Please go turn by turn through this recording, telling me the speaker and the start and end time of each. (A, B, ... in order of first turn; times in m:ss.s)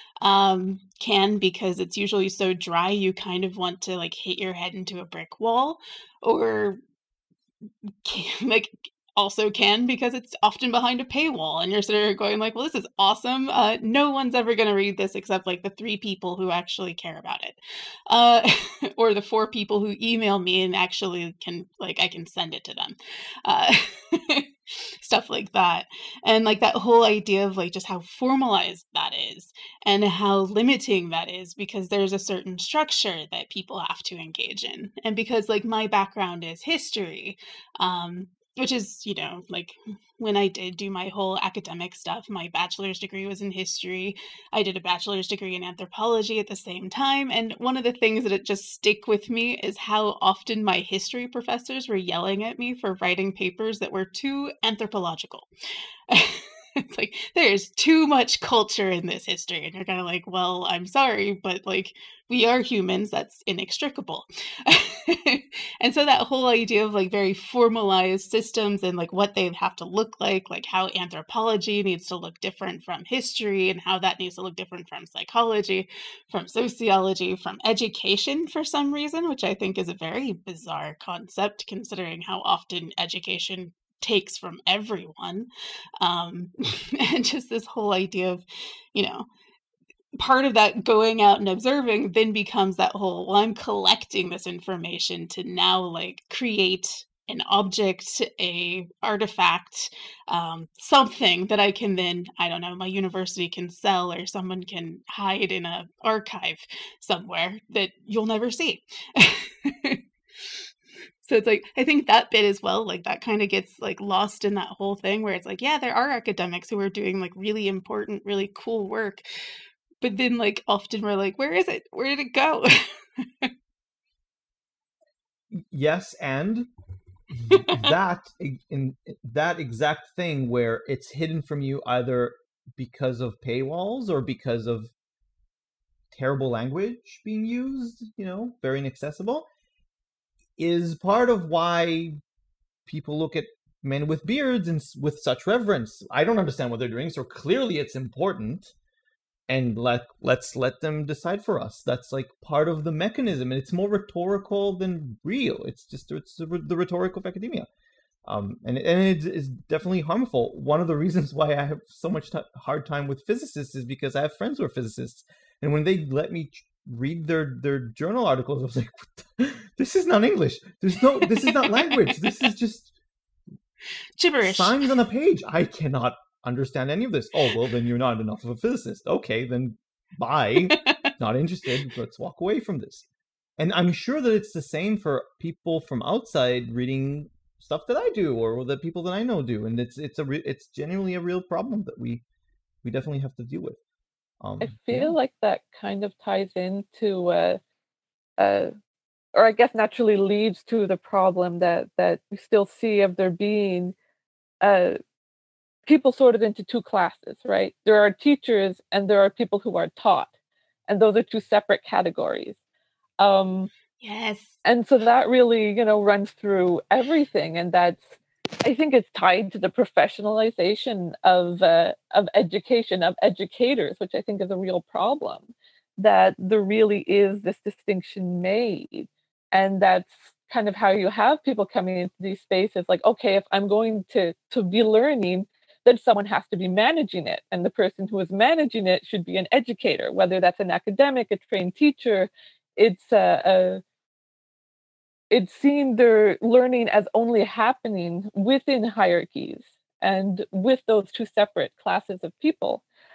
0:00.2-0:06.8 A
0:08.0-0:17.6 A
0:18.1-0:24.5 A
0:25.0-0:55.5 A
0:56.1-1:25.5 A
1:26.0-1:28.4 A
1:28.9-1:29.3 A
1:30.2-1:50.0 A
1:51.2-1:59.2 A
2:00.0-2:03.5 A
2:05.5-2:06.7 B
2:07.5-2:14.9 B
2:07.5-2:07.8 A
2:16.1-2:19.5 B
2:20.6-2:22.2 B
2:22.9-2:28.7 B
2:29.5-2:37.7 B
2:38.3-2:52.9 B
2:51.2-2:52.1 A
2:54.2-2:54.8 A
2:54.4-3:03.0 B
3:00.8-3:01.1 A
3:03.6-3:12.2 B
3:12.8-3:13.8 B
3:14.4-3:15.2 B
3:14.6-3:17.6 C
3:18.4-3:18.7 C
3:19.4-3:24.0 C
3:24.6-3:25.0 C
3:25.9-3:30.3 C
3:30.9-3:32.6 C
3:33.2-3:33.7 C
3:34.0-3:34.6 A
3:34.6-3:38.1 C
3:38.6-4:03.8 C
4:05.3-4:12.8 C